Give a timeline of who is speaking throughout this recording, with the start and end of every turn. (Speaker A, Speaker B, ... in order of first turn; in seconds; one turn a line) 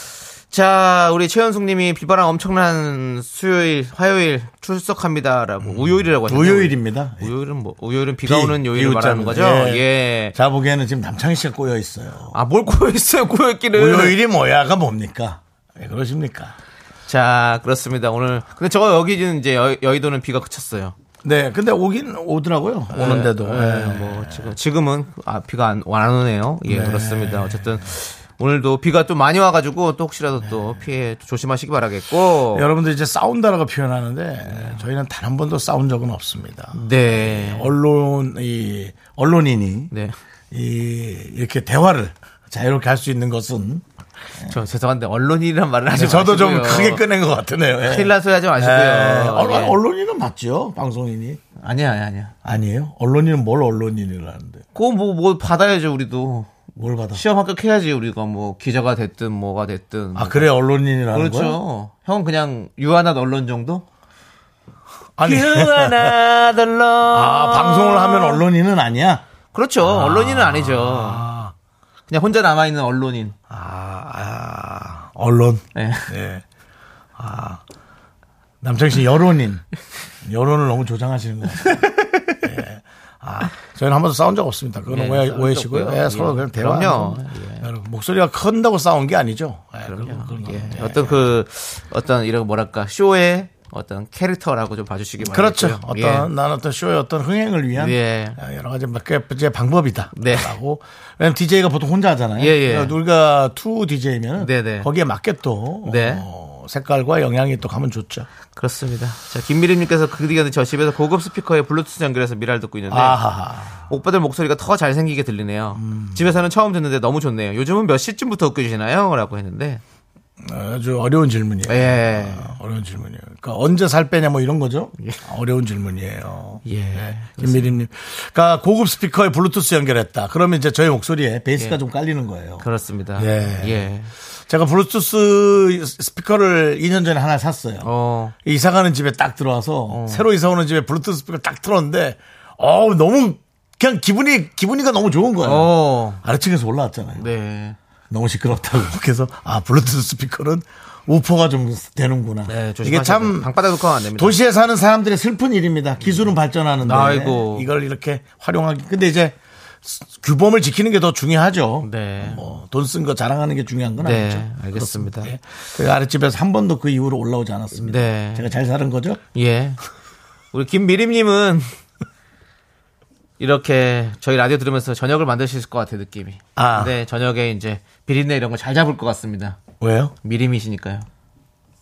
Speaker A: 0.5-10.3
Speaker B: 5.6-7.3
Speaker B: 8.2-12.4
Speaker A: 12.3-14.2
Speaker B: 13.8-16.6
Speaker A: 17.1-20.9
Speaker B: 21.2-24.6
Speaker A: 22.9-32.7
Speaker B: 26.7-27.8
Speaker B: 32.5-39.9
Speaker A: 34.5-34.8
Speaker A: 36.8-37.7
Speaker A: 39.9-40.2
Speaker B: 40.5-43.8
Speaker A: 44.5-47.0
Speaker B: 45.9-51.4
Speaker A: 47.8-49.8
Speaker A: 51.6-52.3
Speaker B: 52.5-54.6
Speaker A: 54.8-56.6
Speaker B: 56.8-57.2
Speaker A: 57.1-60.5
Speaker B: 60.1-61.6
Speaker A: 61.1-63.9
Speaker B: 65.2-66.2
Speaker A: 65.2-68.4
Speaker B: 67.1-69.2
Speaker A: 69.5-71.2
Speaker B: 69.8-71.5
Speaker A: 72.1-73.4
Speaker B: 73.5-76.4
Speaker A: 75.8-76.1
Speaker B: 77.2-77.6
Speaker B: 78.6-79.6
Speaker B: 80.2-91.3
Speaker A: 81.6-82.4
Speaker A: 84.9-87.7
Speaker A: 89.9-96.3
Speaker B: 95.2-108.3
Speaker A: 97.8-98.4
Speaker A: 100.2-100.5
Speaker A: 102.4-103.0
Speaker A: 104.4-104.9
Speaker A: 105.8-106.2
Speaker A: 108.5-113.2
Speaker B: 112.9-113.8
Speaker A: 113.9-119.8
Speaker B: 115.8-116.2
Speaker B: 120.4-132.7
Speaker A: 121.7-122.5
Speaker A: 126.7-127.7
Speaker A: 132.6-134.1
Speaker B: 133.2-133.8
Speaker B: 134.5-137.9
Speaker A: 137.8-138.3
Speaker B: 138.4-145.7
Speaker A: 139.9-140.2
Speaker A: 145.4-146.2
Speaker B: 146.2-147.3
Speaker A: 147.2-147.8
Speaker B: 148.1-153.5
Speaker A: 152.5-154.4
Speaker B: 154.2-169.2
Speaker A: 156.8-157.7
Speaker A: 161.8-162.4
Speaker A: 164.0-165.3
Speaker A: 167.7-168.5
Speaker A: 169.3-169.8
Speaker A: 170.5-171.7
Speaker A: 173.4-179.6
Speaker B: 176.6-176.9
Speaker B: 179.8-180.1
Speaker A: 180.2-181.1